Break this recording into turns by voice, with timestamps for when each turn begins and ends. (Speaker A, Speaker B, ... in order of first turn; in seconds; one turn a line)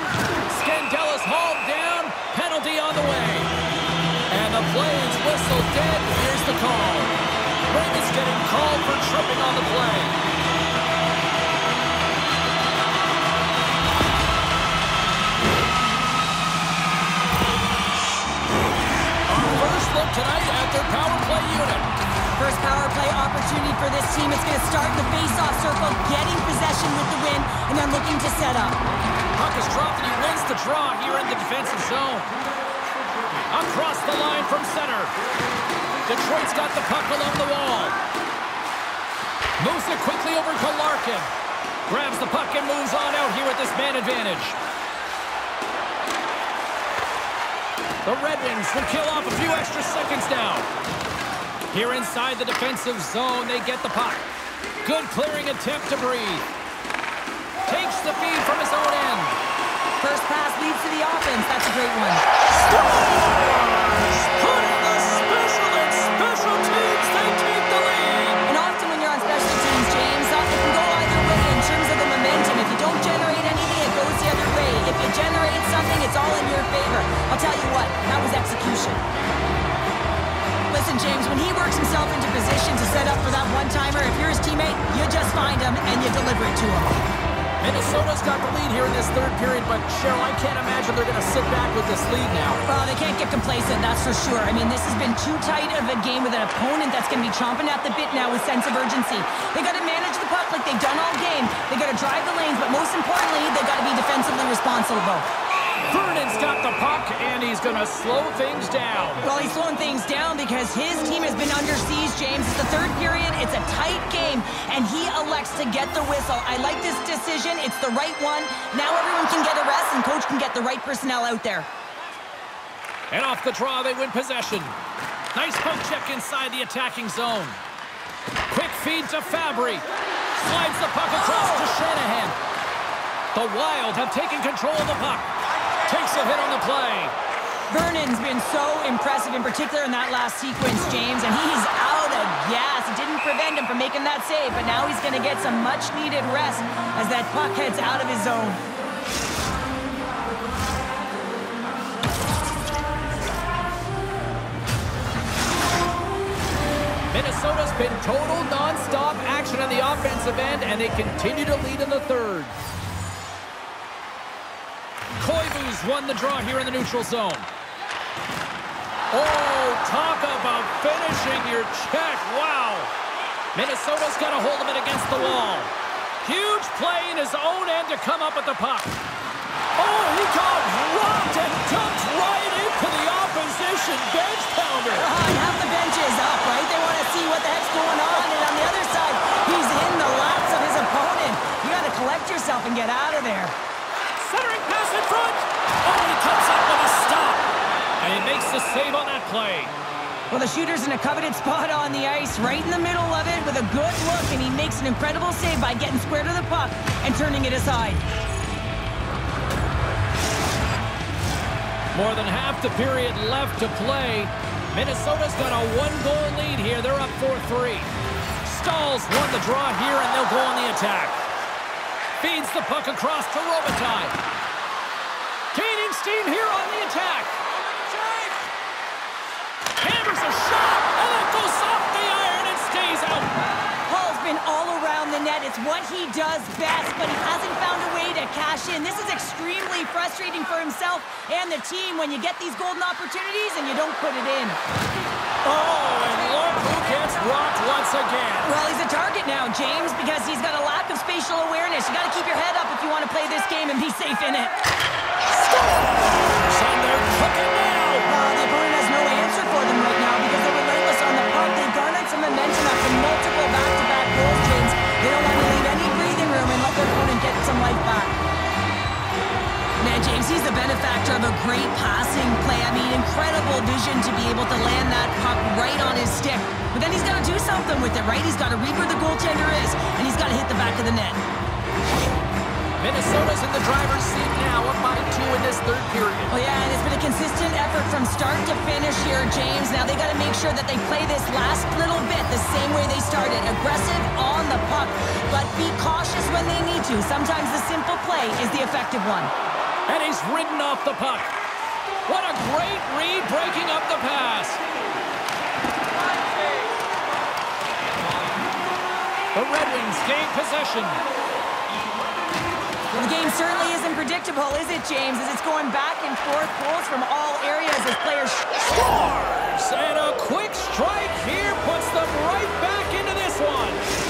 Speaker A: 0.5-3.5
Speaker A: 4.3-7.1
Speaker A: 7.7-10.2
Speaker A: 19.3-21.9
Speaker B: 22.4-28.8
Speaker A: 29.4-32.3
Speaker A: 33.5-35.2
Speaker A: 36.1-38.0
Speaker A: 39.6-41.3
Speaker A: 41.9-44.6
Speaker A: 48.0-50.7
Speaker A: 51.7-54.3
Speaker A: 54.8-56.4
Speaker A: 57.7-59.4
Speaker B: 60.0-62.2
Speaker A: 62.5-68.5
Speaker B: 68.5-79.0
Speaker B: 80.7-86.9
Speaker A: 87.6-92.7
Speaker B: 92.7-105.3
Speaker A: 105.6-109.2
Speaker B: 109.2-121.7
Speaker A: 123.1-124.8
Speaker A: 125.3-127.6
Speaker A: 128.5-129.8
Speaker A: 130.4-132.4
Speaker A: 133.3-137.1
Speaker B: 137.7-148.6
Speaker A: 157.1-162.5
Speaker A: 165.2-167.5
Speaker A: 169.1-172.9
Speaker A: 173.5-175.7
Speaker A: 176.2-178.9
Speaker A: 179.8-185.1
Speaker B: 184.9-193.6
Speaker A: 194.2-197.5
Speaker A: 198.0-199.7
Speaker B: 200.3-208.0
Speaker A: 211.9-217.9
Speaker A: 218.4-221.2
Speaker A: 222.2-224.1
Speaker A: 225.5-228.4
Speaker A: 229.8-233.3
Speaker B: 233.9-244.6
Speaker A: 245.4-248.6
Speaker B: 248.4-254.6
Speaker A: 255.4-255.9
Speaker A: 256.5-258.1
Speaker B: 258.1-268.2
Speaker B: 269.8-281.2
Speaker A: 282.8-286.3
Speaker B: 286.3-299.3
Speaker A: 299.9-301.3
Speaker A: 302.1-304.6
Speaker A: 309.3-311.0
Speaker B: 312.9-318.5
Speaker A: 318.6-323.8